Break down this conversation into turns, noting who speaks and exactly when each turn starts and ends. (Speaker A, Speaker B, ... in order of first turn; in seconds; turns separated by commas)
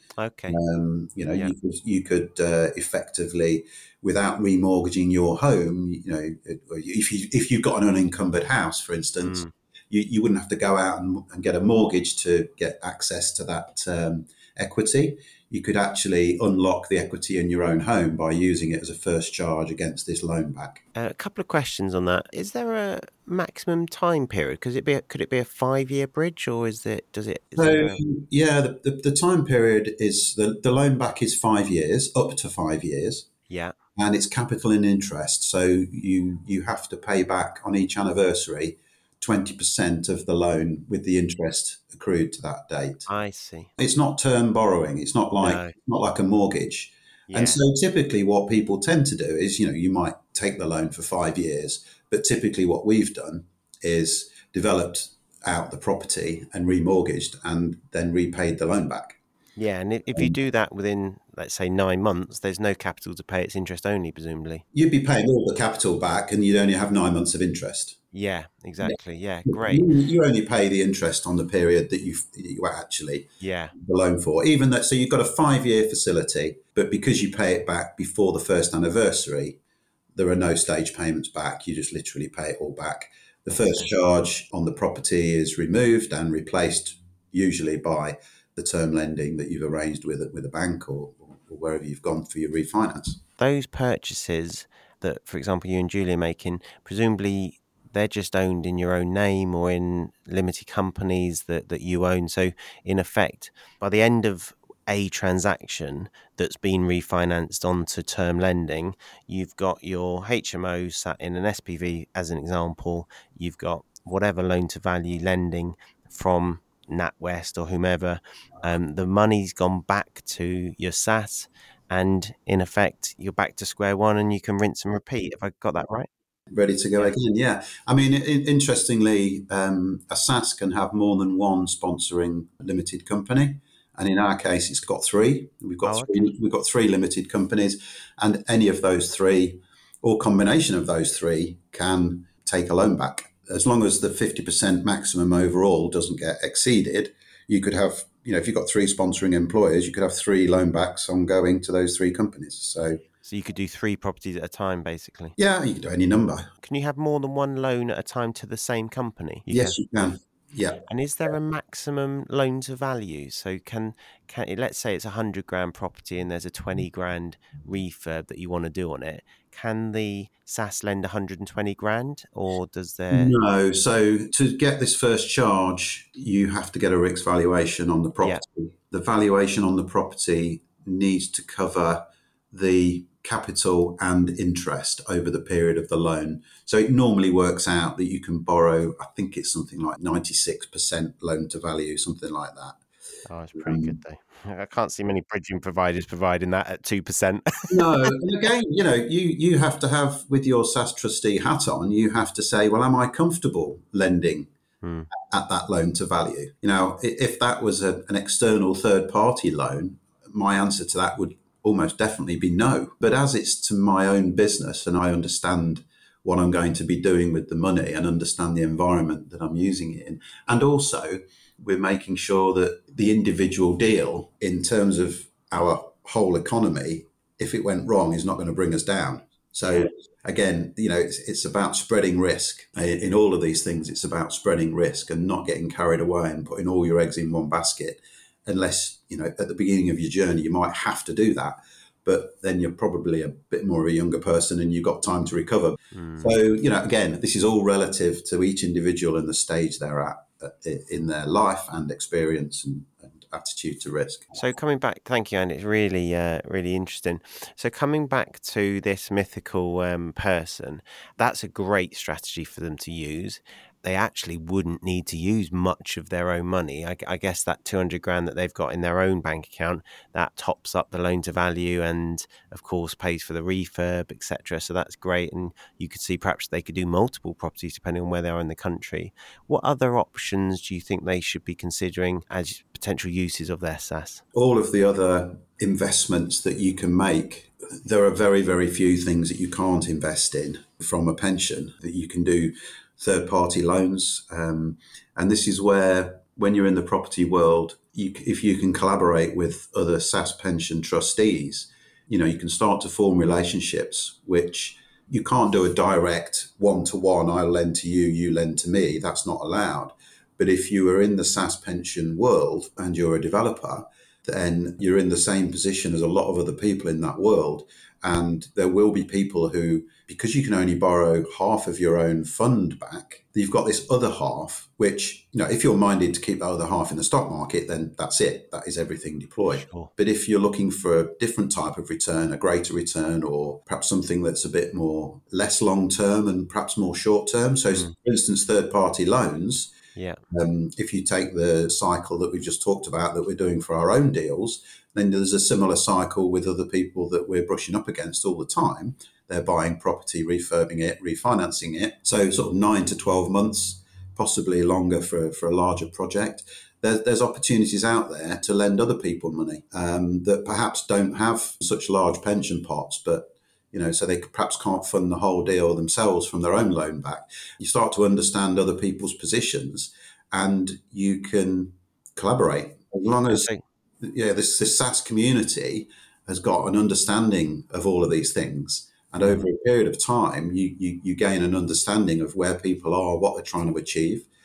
Speaker A: 0.2-0.6, Speaker B: 0.5-20.8, Speaker A: 9.2-9.5, Speaker A: 20.9-28.0, Speaker B: 27.6-33.3, Speaker A: 33.5-33.8, Speaker B: 34.0-43.1, Speaker A: 43.1-43.7, Speaker B: 43.8-59.2, Speaker A: 45.4-45.8, Speaker A: 47.3-47.6, Speaker A: 59.6-64.7, Speaker B: 64.7-68.0, Speaker A: 68.1-69.9, Speaker B: 68.8-79.6, Speaker A: 73.4-73.7, Speaker B: 80.2-93.2, Speaker A: 93.4-126.1, Speaker B: 126.5-153.0, Speaker A: 135.8-136.3, Speaker A: 153.2-155.4, Speaker B: 155.4-156.5, Speaker A: 156.6-159.8, Speaker B: 159.5-160.8, Speaker A: 160.9-173.4, Speaker B: 173.1-192.8, Speaker A: 193.3-198.2, Speaker B: 193.6-194.0, Speaker B: 197.7-204.5, Speaker A: 204.8-205.1, Speaker B: 205.1-254.4, Speaker A: 245.9-246.4, Speaker A: 254.3-284.2, Speaker B: 284.3-339.7, Speaker A: 329.5-329.9, Speaker A: 340.0-340.2, Speaker B: 340.3-373.5, Speaker A: 373.3-373.6, Speaker B: 374.0-384.3